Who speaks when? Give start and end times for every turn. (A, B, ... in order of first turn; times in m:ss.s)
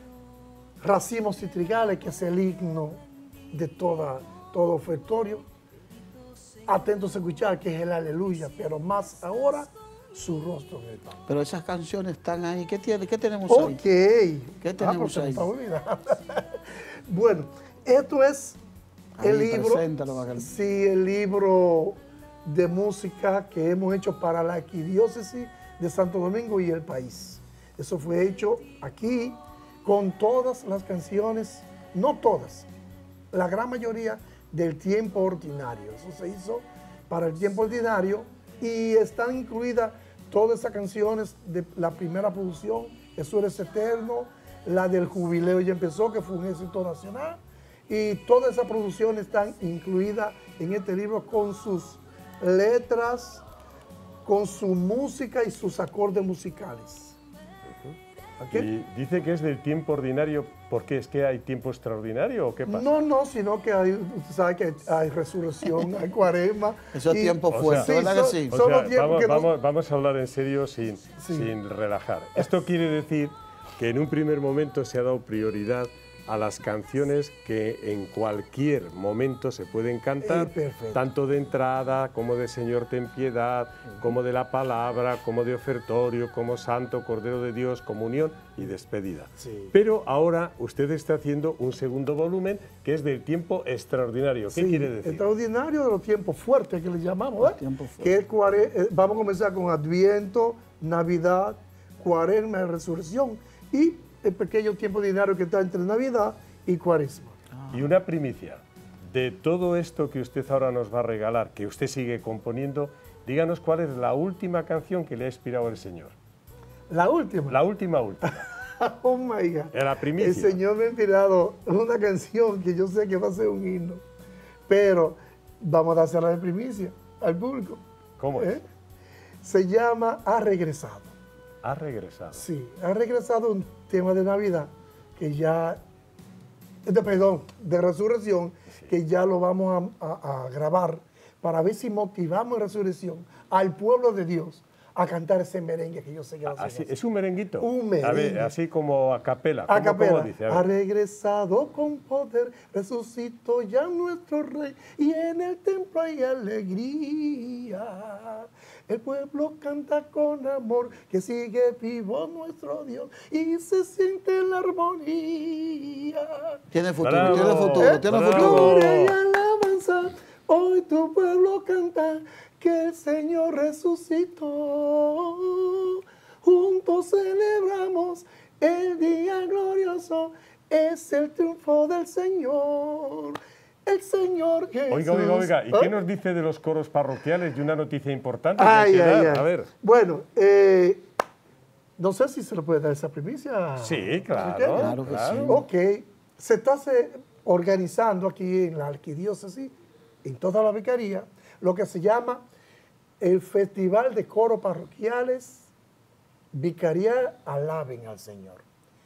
0:00.8-0:05.4 A
0:06.7-0:11.2 A
0:11.3-0:13.8 B
0:13.5-0:18.6 A
0:14.6-0:15.5 B
0:19.2-0:20.5 B
0:19.2-0:32.7 A
0:33.3-0:53.4 A
0:54.2-0:57.2 A
0:58.4-0:58.7 A
0:58.5-1:02.9 C
1:02.7-1:09.5 A
1:06.9-1:08.5 B
1:07.5-1:07.9 C
1:08.5-1:35.3 C
1:11.2-1:11.5 A
1:20.2-1:21.0 A
1:29.4-1:29.7 A
1:34.5-1:47.4 A
1:37.4-1:38.2 B
1:47.5-1:47.8 B
1:47.7-1:56.2 C
1:56.9-1:57.6 A
1:57.5-1:58.4 C
1:58.3-2:04.0 A
1:59.7-2:00.6 C
2:04.7-2:07.8 A
2:08.2-2:08.6 C
2:08.4-2:08.6 A
2:09.4-2:11.1 A
2:11.6-2:12.4 C
2:12.3-2:15.8 A
2:16.8-2:27.0 A
2:26.5-2:30.7 C
2:27.6-2:28.5 A
2:29.7-2:46.6 A
2:46.7-2:48.8 B
2:47.0-2:49.2 C
2:47.2-3:06.0 A
3:04.9-3:09.7 C
3:08.6-3:11.0 A
3:12.0-3:22.4 A
3:13.8-3:15.6 C
3:14.7-3:15.6 B
3:23.2-3:25.7 A
3:26.5-3:28.7 A